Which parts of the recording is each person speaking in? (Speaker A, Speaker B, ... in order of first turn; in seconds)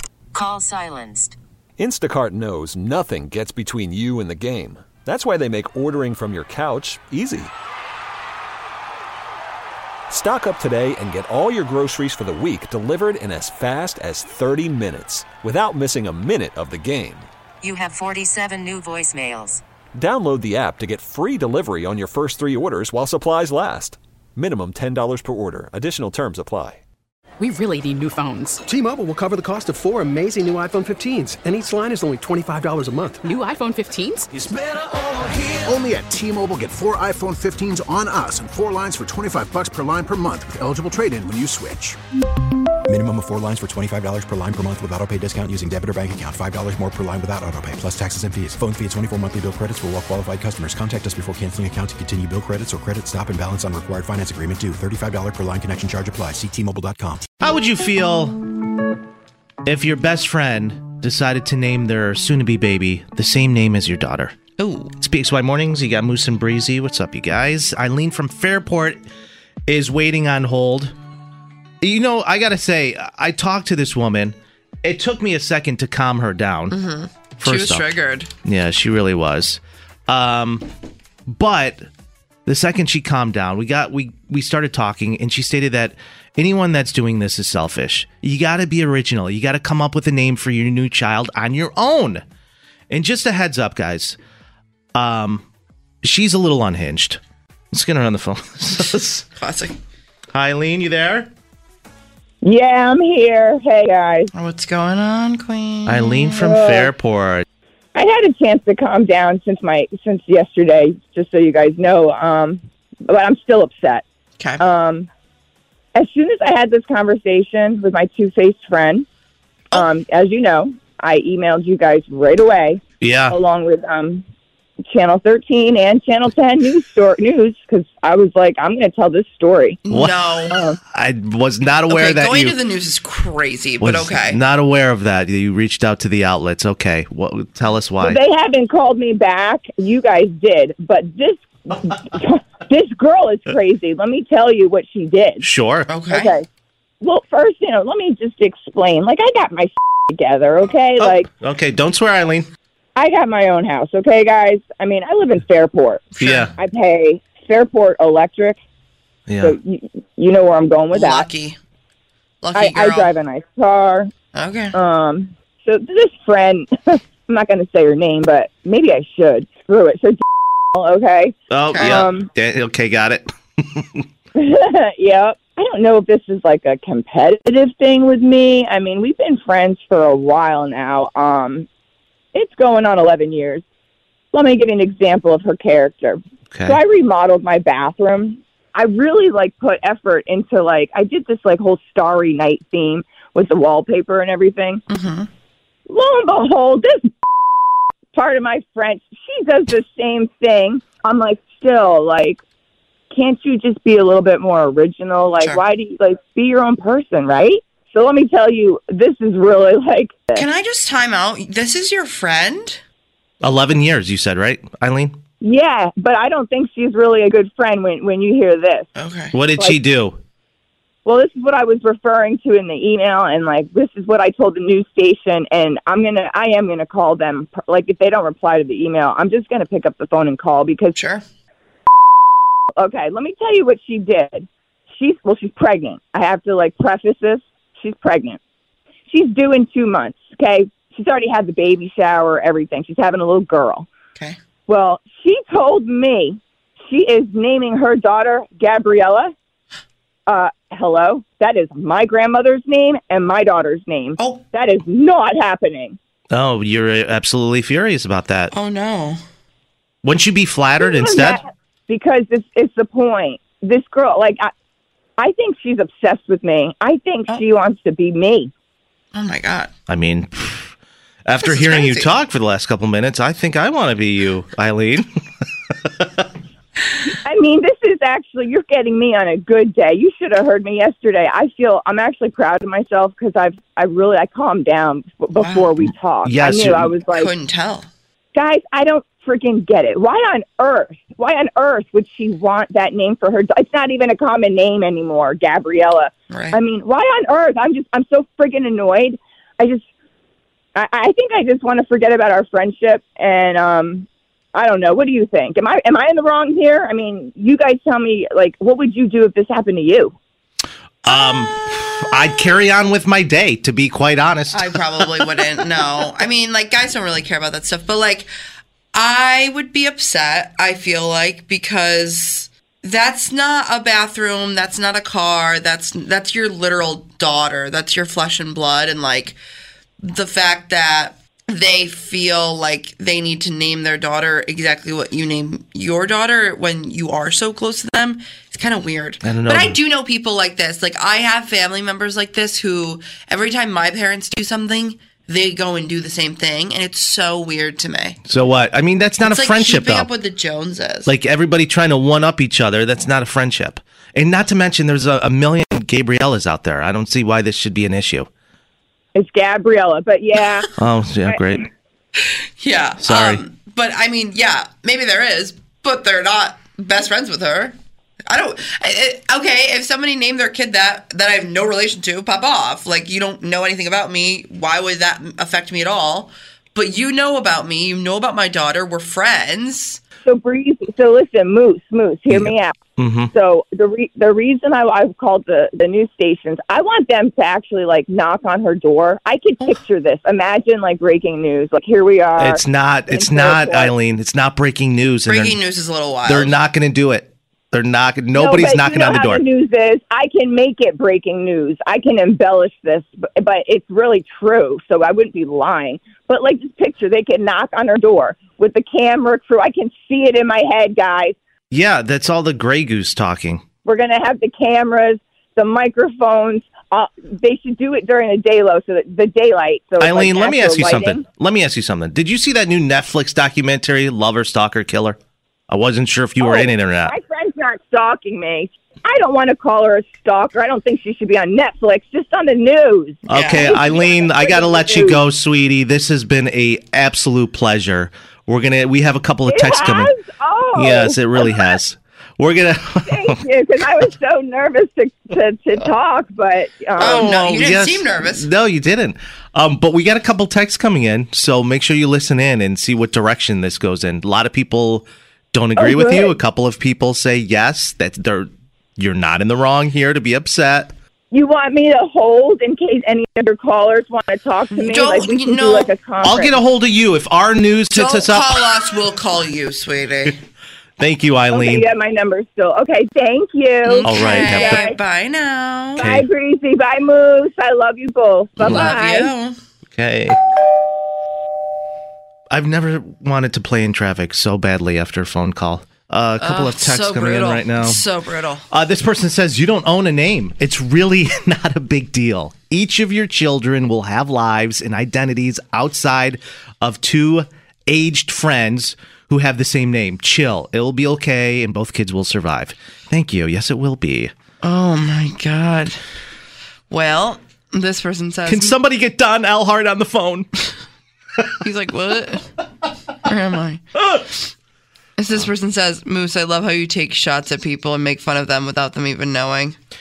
Speaker A: 0.3-1.4, 17.6-19.6
Speaker B: 1.8-7.5, 10.1-17.3, 19.9-26.8
Speaker C: 27.4-28.6, 33.2-34.3
Speaker D: 28.6-33.3
Speaker E: 34.3-42.0
Speaker F: 42.9-57.2
Speaker G: 57.4-58.4, 59.6-64.3, 65.0-69.0, 69.7-70.9, 71.8-76.8, 77.4-77.9, 78.4-80.7, 81.3-81.9, 82.5-92.2, 92.9-94.2, 94.9-95.4, 96.0-97.2, 97.7-99.3, 100.3-101.3, 105.8-107.4, 123.0-123.4, 129.9-130.2, 130.9-132.6, 133.8-138.2, 145.4-145.9, 151.0-152.5, 156.2-156.5, 159.3-159.6, 171.5-174.0, 186.5-186.8, 213.4-215.2, 219.3-220.2, 256.3-258.5, 260.0-261.4, 269.9-270.7, 271.2-275.1, 275.8-276.3, 286.2-286.9, 311.0-314.7, 339.2-339.8, 348.2-350.1, 351.0-358.3, 360.8-361.6, 363.0-363.4, 382.3-383.3, 392.4-395.6, 396.2-399.4, 411.7-413.6, 420.0-425.2, 425.7-427.1, 433.3-440.1, 440.7-443.4, 447.0-460.9, 466.2-468.6, 471.0-471.8, 474.0-474.9, 476.0-476.2, 478.6-478.9, 479.9-480.4, 482.5-488.0, 488.7-504.3, 508.4-510.5, 513.9-514.2
Speaker H: 64.6-64.9, 76.7-78.3, 99.4-99.8, 104.3-106.4, 129.8-130.6, 131.9-134.4, 145.9-146.3, 156.2-156.5, 160.9-161.6, 162.4-163.1, 164.3-164.8, 171.7-172.0, 194.9-195.3, 210.3-212.8, 218.9-219.3, 230.9-231.2, 258.5-259.2, 269.1-269.7, 271.4-272.1, 285.3-285.7, 287.1-287.9, 296.3-296.6, 314.5-318.3, 318.9-329.4, 330.0-348.2, 349.2-351.1, 362.2-367.8, 368.3-380.0, 395.2-396.6, 433.3-433.7, 447.0-448.5, 464.7-465.9, 467.9-470.4, 473.9-476.1, 478.6-479.6, 486.4-488.6, 504.6-506.0, 506.9-508.8, 511.6-512.5, 513.2-513.8, 515.2-519.8
Speaker I: 102.4-104.3, 106.3-106.9, 107.9-114.0, 114.6-115.1, 115.9-119.0, 119.7-124.2, 124.9-129.8, 130.5-130.8, 138.0-145.5, 146.1-146.4, 147.0-151.3, 152.9-156.0, 156.6-158.6, 159.4-161.3, 162.5-164.1, 164.7-170.2, 170.7-172.3, 174.3-181.7, 182.3-183.6, 184.3-194.8, 195.9-197.1, 198.1-202.4, 203.1-210.4, 215.4-218.9, 221.0-230.9, 232.8-238.4, 239.1-243.9, 244.7-249.3, 250.3-256.0, 260.8-264.5, 265.2-268.5, 277.1-287.3, 288.3-299.9, 300.7-310.1, 359.1-360.7, 380.2-382.8, 383.3-393.9, 398.3-411.4, 413.8-421.2, 426.4-435.2, 439.5-441.7, 443.1-447.3, 455.8-456.4, 461.3-466.6, 471.5-474.9, 476.0-479.3